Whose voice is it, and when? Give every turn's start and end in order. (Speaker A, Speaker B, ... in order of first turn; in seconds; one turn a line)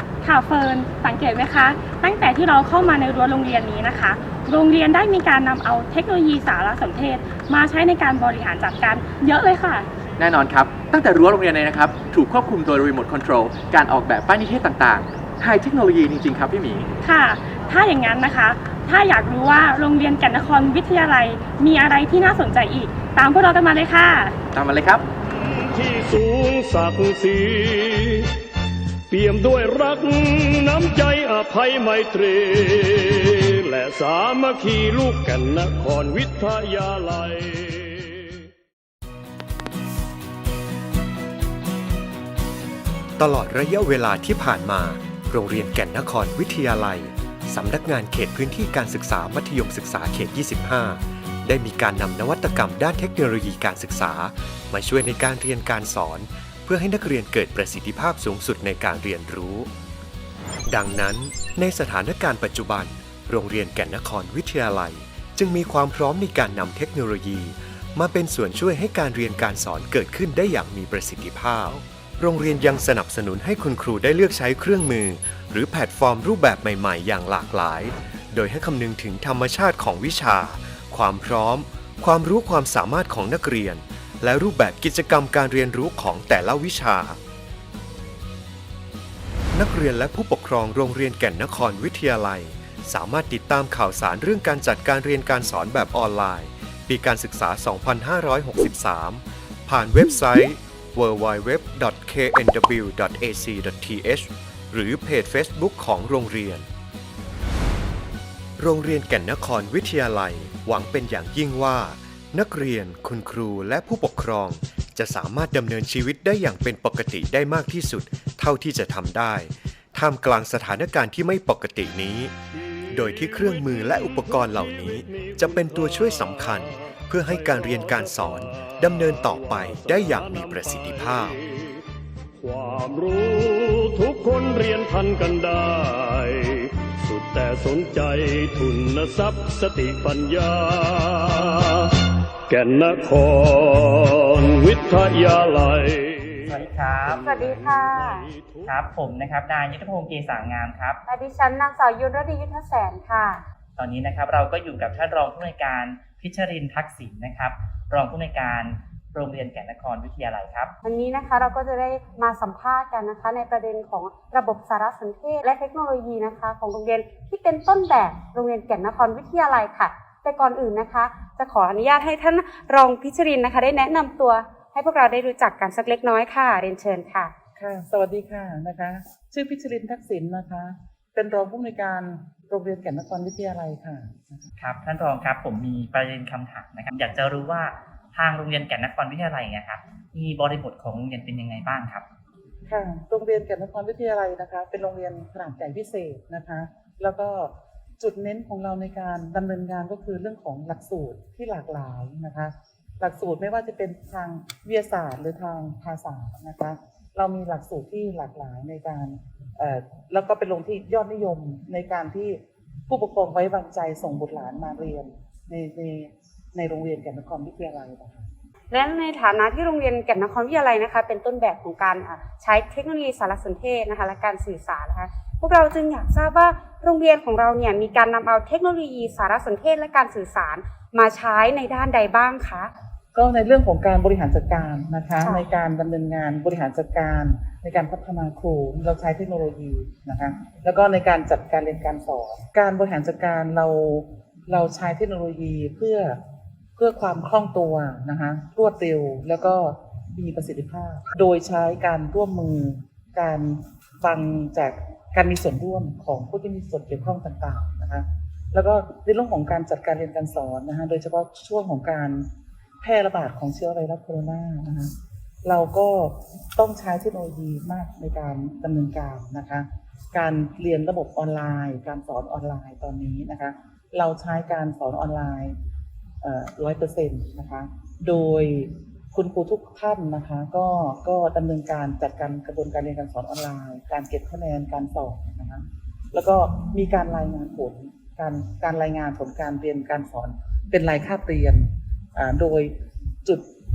Speaker A: 0.2-9.9
Speaker B: 10.2-16.9
Speaker A: 17.0-24.3
Speaker B: 24.5-25.1
Speaker C: 25.3-28.3
Speaker C: 29.1-38.4
Speaker D: 43.2-59.7
Speaker D: 60.7-87.2
Speaker D: 89.5-106.7
Speaker D: 108.6-122.3
Speaker D: 122.9-131.4
Speaker C: 123.0-131.8
Speaker C: 132.4-141.9
Speaker C: 142.5-146.3
Speaker E: 146.4-147.6
Speaker C: 147.1-148.7
Speaker F: 147.2-148.2
Speaker E: 148.7-151.0
Speaker F: 151.1-153.4
Speaker E: 153.8-160.7
Speaker F: 160.8-177.3
Speaker G: 177.6-184.5
Speaker E: 184.6-192.0
Speaker G: 192.7-218.3
Speaker F: 218.7-232.7
Speaker G: 233.1-246.2
Speaker G: 246.8-262.3
Speaker G: 262.8-264.9
Speaker G: 265.4-275.6
Speaker G: 276.2-292.7